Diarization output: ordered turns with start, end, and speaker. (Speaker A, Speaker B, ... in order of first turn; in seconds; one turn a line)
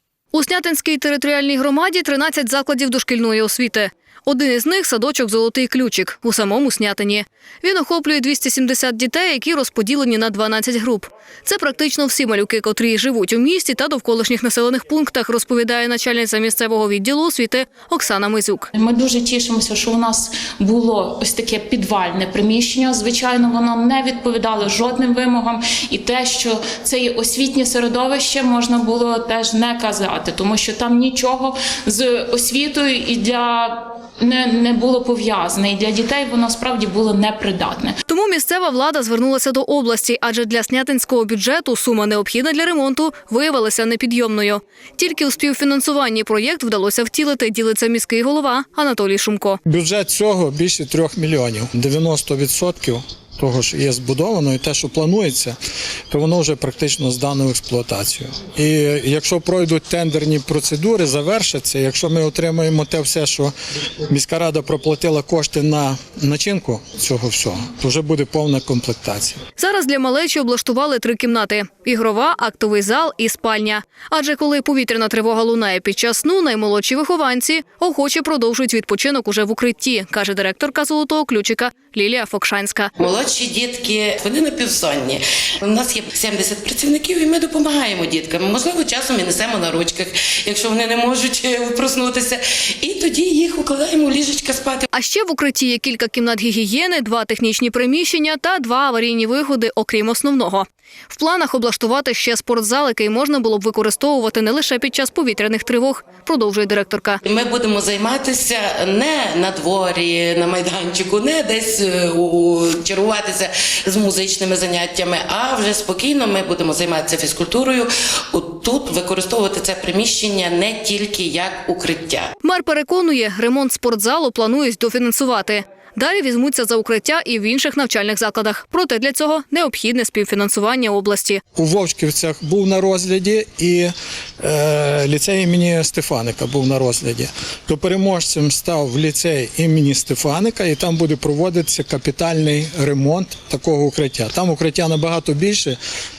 Speaker A: 0.3-18.7
Speaker B: 18.7-38.0
Speaker A: 38.1-49.6
Speaker C: 49.7-55.6
Speaker C: 56.1-63.5
Speaker C: 64.1-69.4
Speaker A: 69.6-82.9
Speaker D: 83.0-94.9
Speaker A: 94.9-107.2
Speaker D: 107.2-122.3
Speaker A: 122.4-131.4
Speaker C: 131.6-145.8